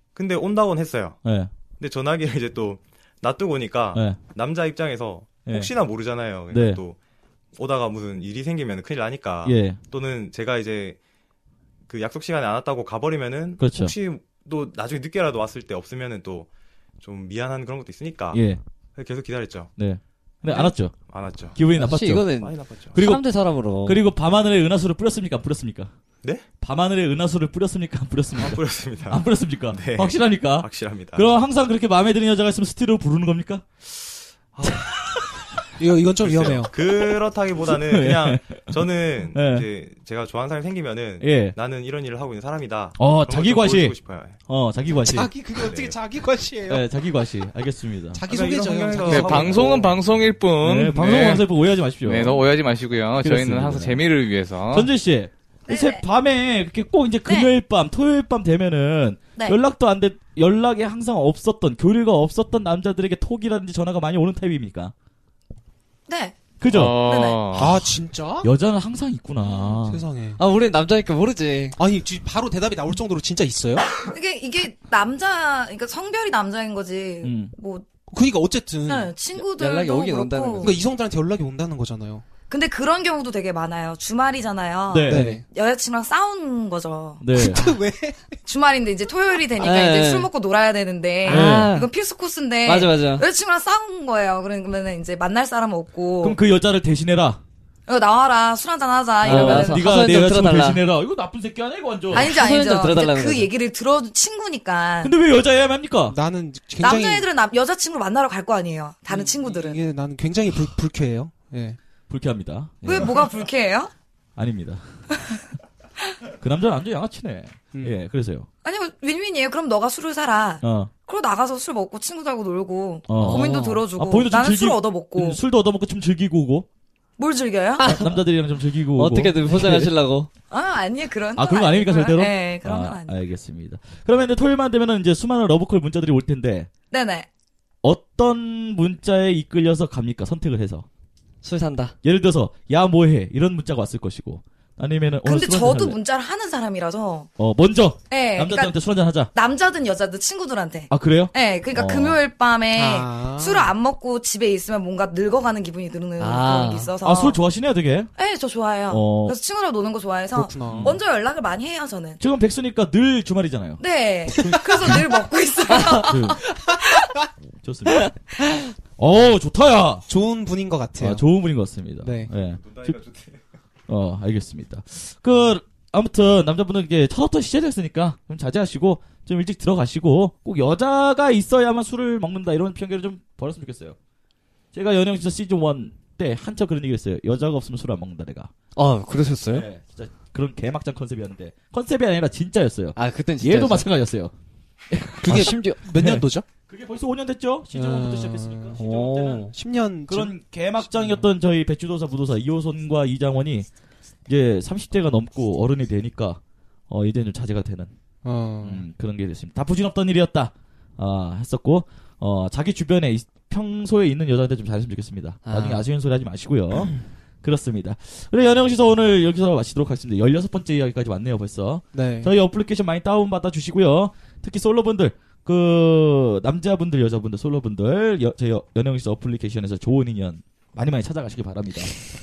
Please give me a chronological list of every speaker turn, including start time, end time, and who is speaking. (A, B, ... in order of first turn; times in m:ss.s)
0:00.2-0:01.2 A
0:01.2-0:01.5 B
0:01.8-0:07.0 A
0:03.9-0:04.2 B
0:05.5-0:05.7 B
0:06.5-0:06.8 B
0:07.6-0:11.0 A
0:09.4-0:09.8 B
0:11.9-0:16.5 A
0:13.6-0:14.0 B
0:17.0-0:18.4 A
0:18.3-0:18.6 B
0:19.0-0:19.7 A
0:19.8-0:22.4 B
0:20.5-0:21.6 A
0:21.7-0:24.1 C
0:22.4-0:23.0 A
0:22.9-0:23.3 B
0:23.8-0:25.9 B
0:26.6-0:33.6 B
0:28.4-0:31.3 A
0:34.5-0:34.8 A
0:34.6-0:34.9 B
0:35.8-0:36.7 D
0:36.2-0:44.4 A
0:37.6-0:38.8 B
0:39.3-0:39.7 B
0:41.2-0:41.6 B
0:43.0-0:45.3 B
0:44.9-0:46.9 D
0:45.6-0:46.0 A
0:46.7-0:48.2 B
0:48.1-0:49.8 D
0:48.3-0:50.0 A
0:49.0-0:49.5 B
0:49.0-0:54.9 E
0:50.6-0:52.5 B
0:53.2-0:54.1 B
0:54.7-1:04.9 B
0:55.7-0:56.0 F
1:06.1-1:06.5 F
1:06.6-1:10.0 B
1:06.7-1:07.8 E
1:07.0-1:07.6 F
1:07.6-1:08.5 D
1:09.8-1:10.4 D
1:10.4-1:11.8 C
1:11.8-1:14.1 D
1:14.1-1:17.8 F
1:17.2-1:17.6 B
1:18.1-1:19.1 D
1:18.9-1:20.8 F
1:19.3-1:20.8 C
1:20.6-1:22.3 D
1:22.4-1:27.6 F
1:24.9-1:25.4 B
1:25.1-1:25.4 D
1:27.2-1:27.6 B
1:27.4-1:28.4 D
1:28.5-1:36.4 F
1:29.6-1:30.3 C
1:31.2-1:31.9 C
1:31.3-1:31.7 B
1:32.6-1:33.2 C
1:36.2-1:37.4 B
1:37.9-1:39.8 F
1:39.2-1:40.9 C
1:39.2-1:42.3 B
1:42.1-1:43.5 C
1:42.1-1:45.2 F
1:45.0-1:46.2 B
1:46.1-1:47.3 D
1:46.8-1:49.8 F
1:49.1-1:51.8 D
1:52.1-1:53.3 B
1:52.9-1:53.9 F
1:54.4-1:54.8 B
1:56.4-1:58.5 B
1:58.6-2:05.4 F
2:00.6-2:00.9 B
2:03.1-2:06.7 B
2:03.1-2:03.8 C
2:07.2-2:08.0 F
2:07.8-2:08.3 C
2:08.0-2:10.0 B
2:08.9-2:10.3 C
2:10.5-2:13.2 F
2:11.4-2:16.7 B
2:16.9-2:17.3 F
2:17.8-2:20.9 B
2:21.4-2:22.0 C
2:22.0-2:26.0 B
2:25.2-2:27.3 F
2:27.4-2:29.3 B
2:28.1-2:28.8 F
2:29.3-2:37.4 F
2:30.9-2:32.2 B
2:32.7-2:33.7 D
2:36.2-2:36.9 C
2:37.0-2:38.1 B
2:38.2-2:42.2 F
2:38.9-2:39.4 B
2:40.3-2:41.0 D
2:40.7-2:41.0 B
2:42.2-2:43.8 B
2:43.8-2:47.1 F
2:46.0-2:46.4 B
2:47.6-2:48.2 B
2:49.0-2:50.1 B
2:50.1-2:51.2 D
2:51.0-2:53.0 B
2:52.0-2:52.3 D
2:52.5-2:53.4 A
2:53.9-3:04.0 B
3:04.7-3:08.5 B
3:08.8-3:09.7 C
3:09.5-3:14.3 B
3:13.0-3:13.9 C
3:14.9-3:19.5 B
3:15.2-3:16.4 D
3:15.3-3:15.8 C
3:17.7-3:18.8 D
3:18.8-3:19.5 C
3:19.5-3:20.3 D
3:20.1-3:23.7 B
3:24.3-3:27.9 B
3:28.2-3:28.8 D
3:28.6-3:51.9 B
3:35.4-3:35.9 C
3:41.9-3:42.3 D